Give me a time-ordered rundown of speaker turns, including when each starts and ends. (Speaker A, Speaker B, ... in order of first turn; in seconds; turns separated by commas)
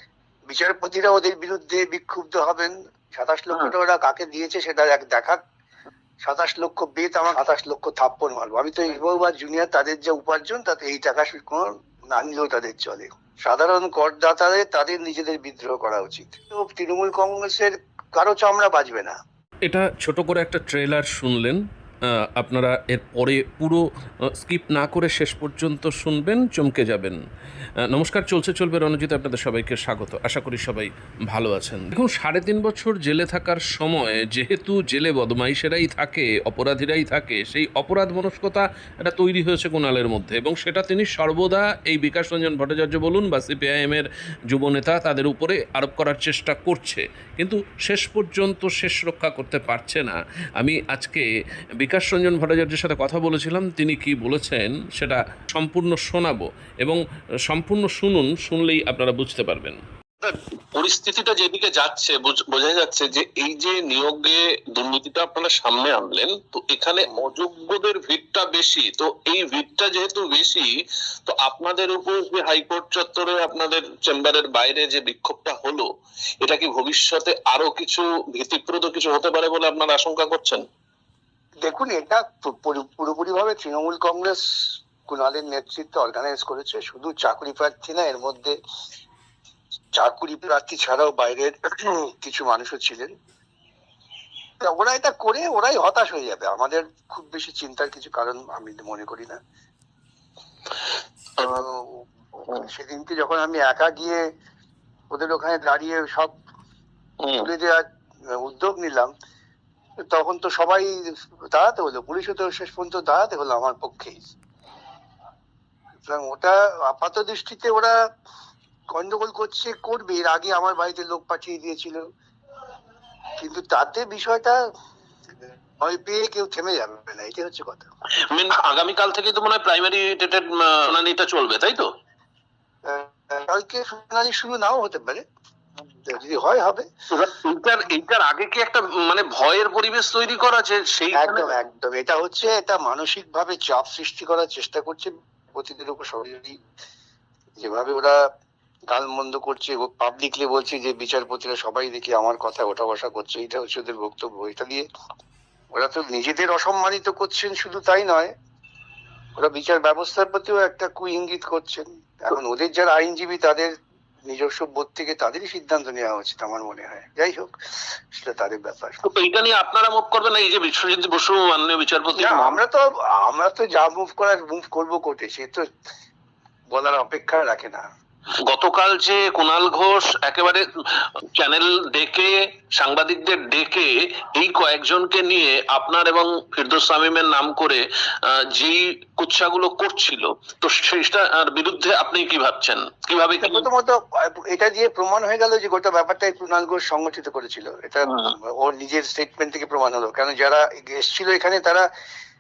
Speaker A: 0.5-5.4, Speaker A: 6.2-19.1, Speaker B: 19.7-21.6, Speaker B: 22.4-23.8, Speaker B: 24.4-27.2, Speaker B: 27.9-51.2, Speaker B: 51.8-59.8, Speaker C: 60.2-70.7, Speaker C: 71.3-75.9, Speaker C: 76.4-80.6, Speaker A: 81.6-84.4, Speaker A: 85.1-88.5, Speaker A: 90.0-93.1, Speaker A: 94.6-99.4, Speaker A: 101.4-104.2, Speaker A: 105.1-106.3, Speaker C: 107.2-107.5, Speaker A: 107.4-109.1, Speaker A: 110.1-110.9, Speaker A: 111.5-114.3, Speaker A: 116.0-117.9, Speaker A: 118.9-122.0, Speaker A: 123.4-124.6, Speaker A: 125.8-127.9, Speaker C: 128.3-131.9, Speaker A: 132.9-135.2, Speaker A: 136.1-136.8, Speaker C: 137.1-141.5, Speaker A: 141.1-146.6, Speaker A: 147.6-148.2, Speaker A: 148.9-154.8, Speaker A: 155.7-158.3, Speaker A: 159.4-163.7, Speaker A: 164.3-167.5, Speaker A: 168.1-169.0, Speaker C: 169.0-172.6, Speaker A: 172.2-175.6, Speaker A: 176.7-177.8, Speaker C: 178.5-193.7, Speaker A: 193.4-201.8, Speaker C: 198.1-198.3